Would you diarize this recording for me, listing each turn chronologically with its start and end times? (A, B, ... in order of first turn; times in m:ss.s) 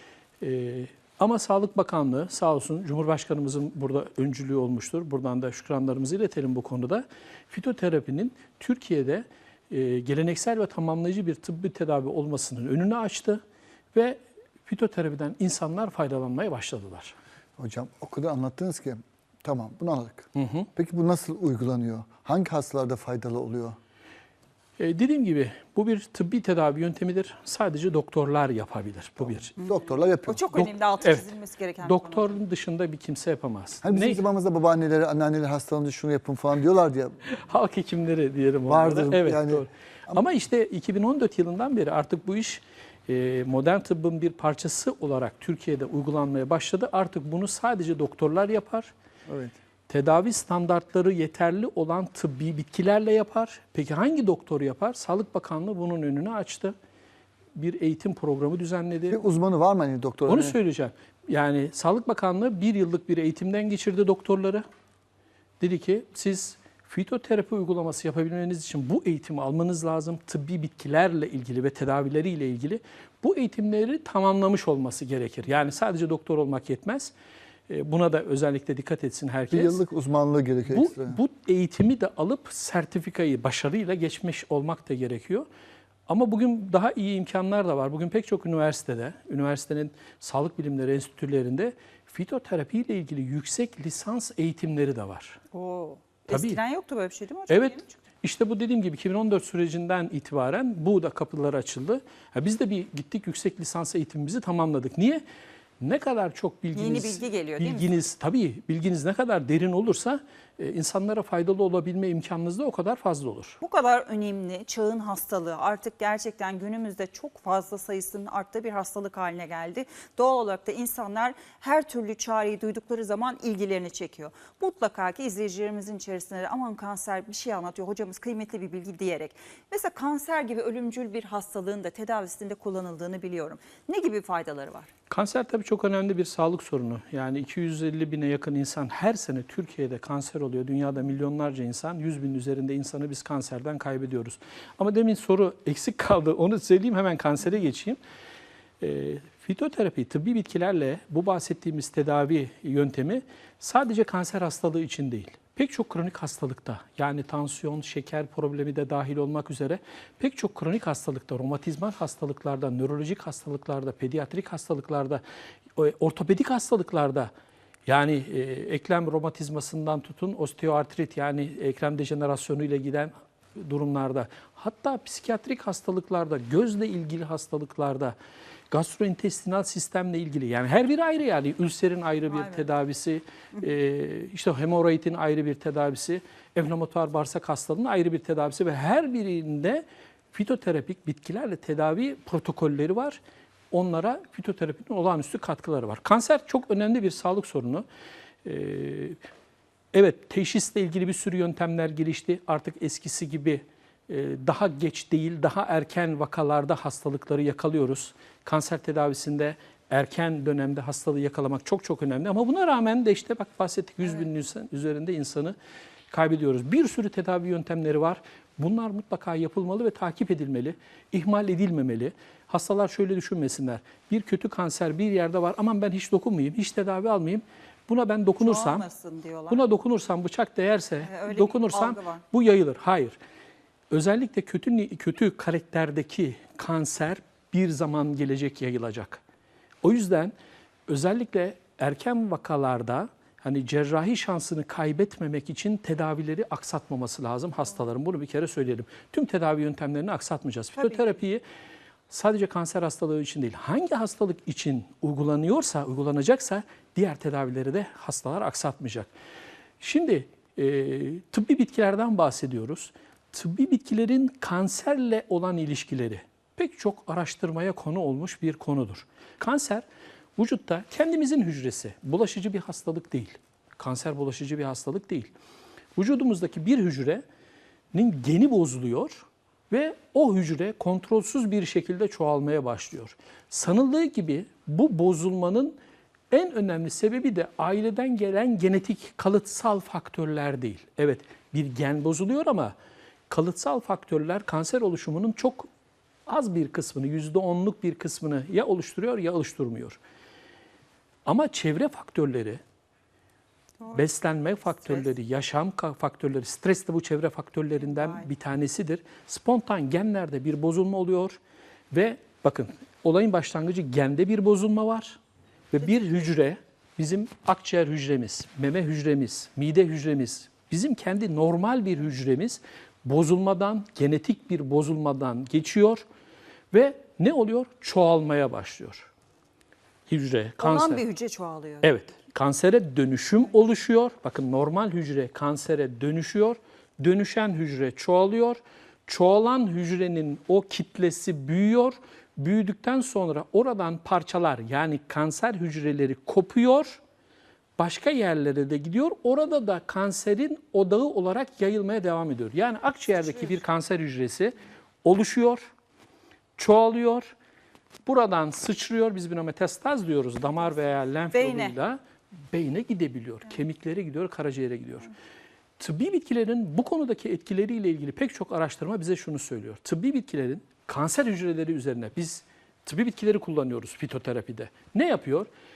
0:00.4-0:13.4 A
0:14.0-0:17.2 A
0:17.6-0:23.8 B
0:20.4-0:20.7 A
0:24.8-0:29.5 A
0:29.5-0:30.4 B
0:29.6-0:32.4 C
0:30.5-0:34.2 A
0:33.8-0:37.2 B
0:37.3-0:48.9 A
0:38.7-0:40.2 B
0:49.3-0:49.5 B
0:49.9-0:56.7 A
0:57.6-0:59.2 A
0:59.1-1:00.6 B
1:00.3-1:04.6 A
1:05.6-1:17.1 A
1:17.7-1:19.8 A
1:19.5-1:21.2 B
1:20.7-1:25.5 A
1:26.1-1:35.4 A
1:35.5-1:38.0 C
1:36.3-1:36.6 A
1:37.5-1:45.2 A
1:45.8-1:53.6 A
1:46.7-1:47.9 C
1:53.6-2:14.9 C
2:15.1-2:28.0 A
2:28.8-2:45.2 A
2:45.8-2:47.3 A
2:47.9-2:58.2 A
2:58.7-3:17.8 A
3:02.3-3:02.7 C
3:18.4-3:19.2 A
3:19.9-3:35.6 A
3:36.1-3:48.9 A
3:48.4-3:49.6 C
3:49.5-3:53.2 A
3:51.0-3:52.2 C
3:53.9-3:59.2 A
3:59.8-4:00.3 A
4:00.9-4:11.4 A
4:12.1-4:19.1 A
4:19.8-4:29.8 A
4:30.4-4:35.3 A
4:36.0-4:37.2 A
4:37.9-4:45.8 A
4:46.3-4:52.8 A
4:53.3-4:55.7 A
4:56.3-5:00.0 A
5:01.2-5:02.6 A
5:03.9-5:11.4 A
5:07.9-5:08.2 C
5:11.9-5:15.2 A
5:15.7-5:26.0 A
5:26.7-5:29.1 A
5:30.1-5:31.0 A
5:30.6-5:31.9 C
5:31.8-5:47.0 A
5:47.8-5:55.7 A
5:56.6-5:57.3 A
5:58.1-6:02.0 A
6:01.3-6:01.8 C
6:02.5-6:05.1 A
6:05.8-6:15.5 A